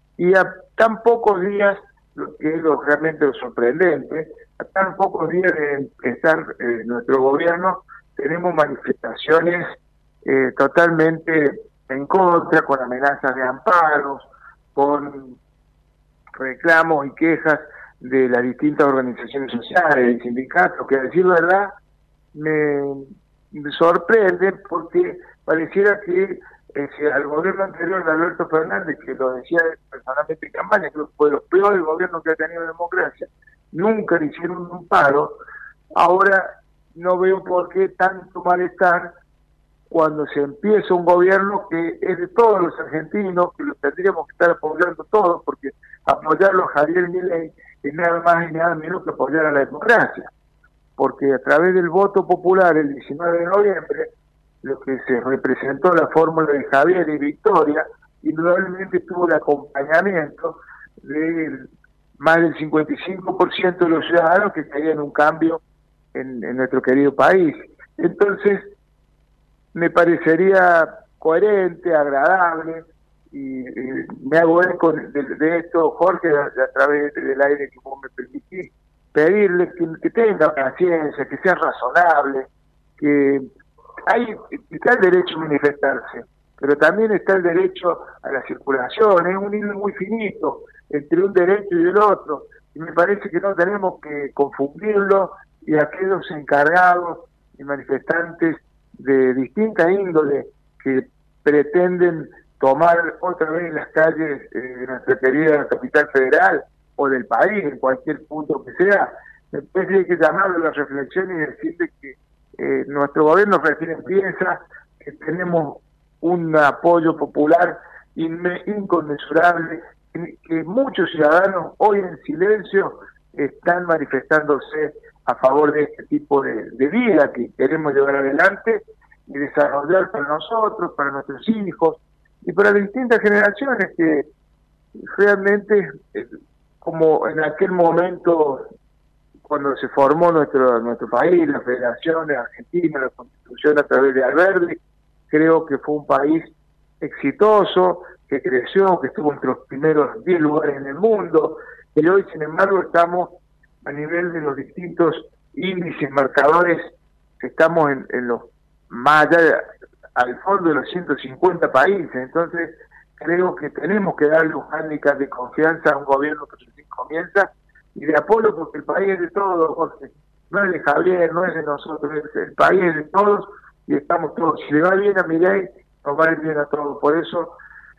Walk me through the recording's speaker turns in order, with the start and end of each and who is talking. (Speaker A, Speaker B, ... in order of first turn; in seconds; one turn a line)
Speaker A: 0.2-9.7
Speaker A: 10.2-15.4
Speaker A: 16.4-21.7
Speaker A: 22.3-35.4
Speaker A: 36.0-39.1
Speaker A: 39.9-50.3
Speaker A: 51.0-54.1
Speaker A: 54.6-65.6
Speaker A: 66.1-68.7
Speaker A: 69.7-82.5
Speaker A: 83.0-83.5
Speaker A: 84.1-134.3
Speaker A: 135.0-138.7
Speaker A: 139.4-144.8
Speaker A: 145.3-177.6